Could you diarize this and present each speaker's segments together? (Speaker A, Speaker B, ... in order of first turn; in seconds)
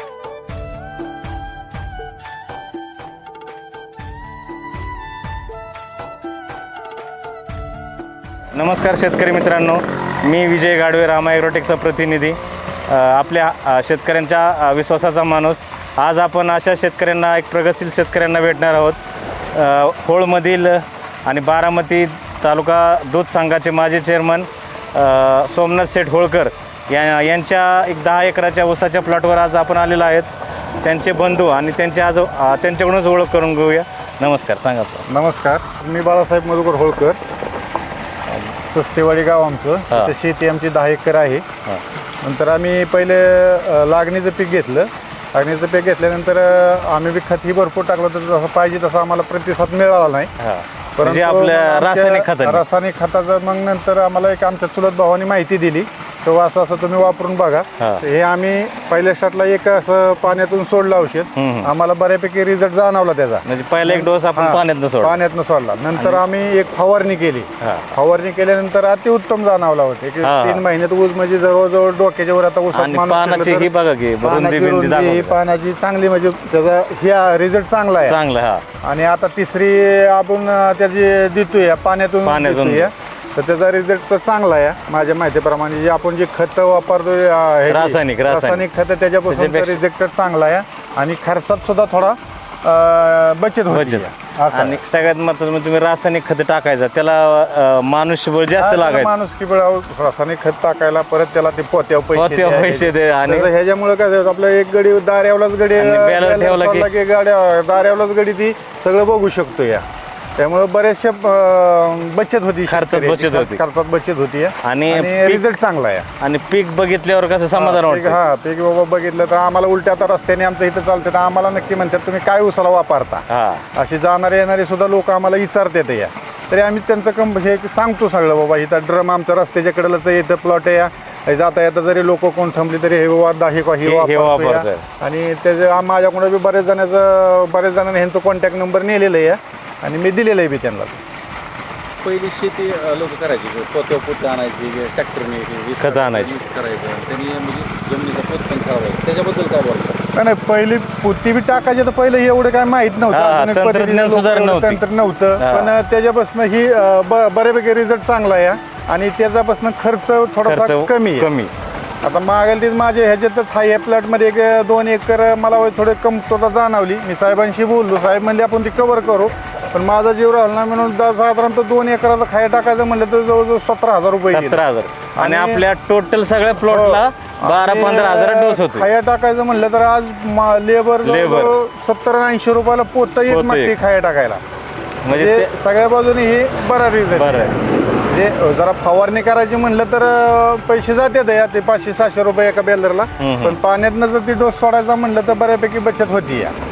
Speaker A: 8.5-12.4, 12.9-19.0, 19.5-30.3, 30.8-35.0, 50.4-52.6, 57.8-58.0, 61.4-61.7, 63.4-65.2, 66.0-66.2, 67.6-67.9, 70.2-70.6, 72.7-75.4, 78.0-78.6, 82.2-82.9, 87.7-88.7, 89.3-89.8, 93.7-99.2, 102.1-103.5, 105.8-106.9, 112.7-113.6, 114.6-115.5, 116.2-118.2, 123.3-123.6, 133.8-134.8, 145.8-146.4, 153.1-154.8, 155.4-155.7, 160.4-161.5, 174.3-178.9, 181.0-181.6, 183.3-183.7, 185.0-185.5, 187.1-187.5, 193.2-193.6
Speaker B: 35.1-37.2, 38.3-41.4, 42.2-50.3, 51.0-73.7, 74.2-78.2, 78.8-94.8, 98.5-109.8, 110.4-116.1, 117.5-141.0, 150.1-161.3, 162.0-174.6, 175.2-175.7, 176.7-184.4, 185.1-196.5
Speaker C: 142.0-150.0